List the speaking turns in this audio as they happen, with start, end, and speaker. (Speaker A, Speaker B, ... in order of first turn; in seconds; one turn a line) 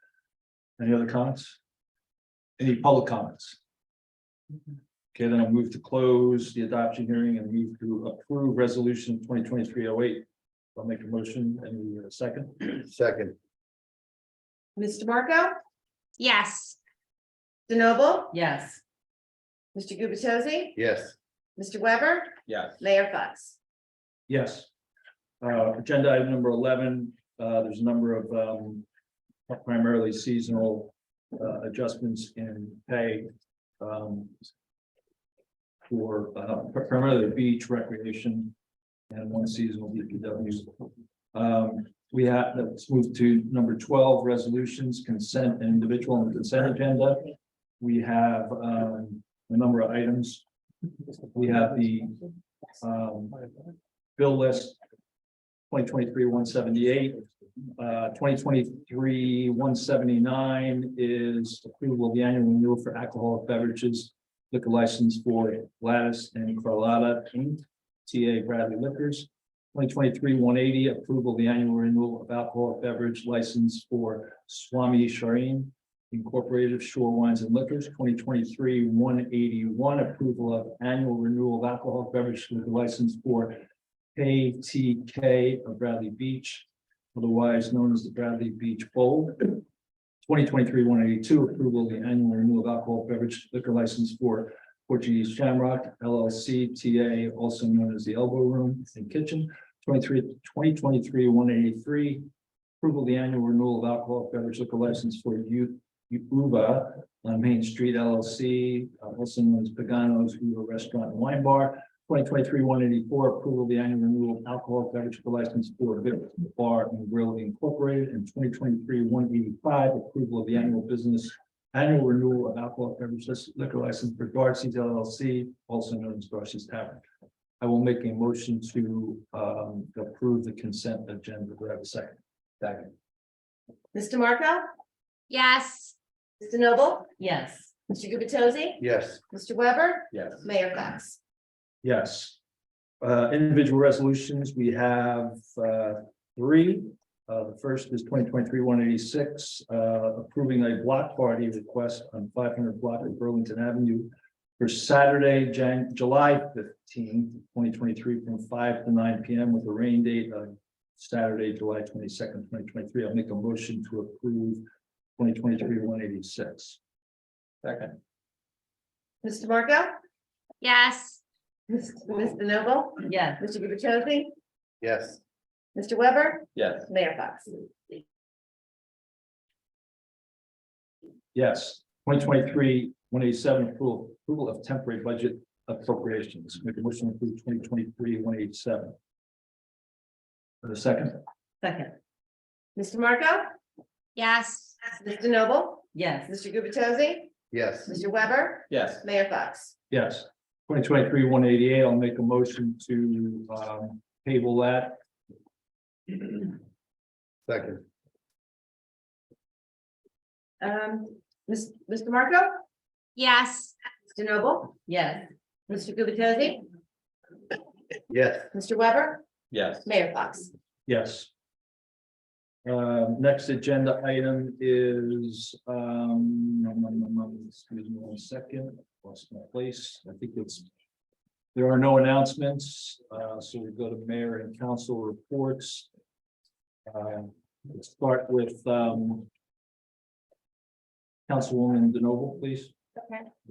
Speaker A: 0.8-1.6
Speaker A: 2.6-3.6
Speaker A: 5.1-12.8
Speaker B: 12.9-13.3
Speaker C: 14.8-15.5
Speaker D: 16.2-16.8
Speaker C: 17.7-18.3
Speaker E: 18.3-18.8
Speaker C: 19.7-20.8
Speaker B: 20.8-21.1
Speaker C: 21.6-23.6
Speaker F: 22.5-22.8
Speaker A: 24.3-24.7
Speaker A: 25.4-28.8
Speaker A: 29.5-33.3
Speaker A: 33.8-34.5
Speaker A: 35.9-38.5
Speaker A: 39.1-40.7
Speaker A: 41.3-50.4
Speaker A: 51.3-52.2
Speaker A: 52.8-53.4
Speaker A: 54.2-54.8
Speaker A: 55.7-57.2
Speaker A: 57.8-83.6
Speaker A: 84.2-89.6
Speaker A: 90.2-102.2
Speaker A: 102.8-127.0
Speaker A: 127.6-132.2
Speaker C: 133.9-134.6
Speaker D: 135.3-135.9
Speaker C: 136.4-137.1
Speaker E: 137.2-137.7
Speaker C: 137.9-141.2
Speaker B: 138.8-139.2
Speaker F: 140.1-140.4
Speaker A: 141.8-142.4
Speaker A: 143.0-164.6
Speaker A: 165.2-166.8
Speaker F: 167.6-167.9
Speaker C: 169.2-169.9
Speaker D: 170.6-171.2
Speaker C: 171.7-174.3
Speaker E: 173.1-173.4
Speaker B: 174.8-175.2
Speaker C: 175.7-177.5
Speaker F: 176.5-176.9
Speaker A: 181.3-188.9
Speaker A: 190.6-191.2
Speaker E: 191.6-191.9
Speaker C: 192.8-193.4
Speaker D: 194.2-194.8
Speaker C: 194.8-197.3
Speaker E: 195.9-196.3
Speaker B: 197.5-197.9
Speaker C: 197.9-199.7
Speaker F: 198.7-199.0
Speaker A: 199.9-205.0
Speaker B: 207.5-207.8
Speaker C: 210.6-212.5
Speaker D: 213.2-213.7
Speaker C: 214.1-214.7
Speaker E: 214.8-215.3
Speaker C: 215.7-216.6
Speaker B: 218.1-218.5
Speaker C: 218.5-219.2
Speaker F: 219.5-219.8
Speaker C: 219.8-220.5
Speaker A: 220.8-221.3
Speaker A: 222.6-230.7
Speaker A: 231.5-235.9
Speaker A: 236.9-239.3
Speaker A: 241.3-242.7
Speaker E: 242.9-243.3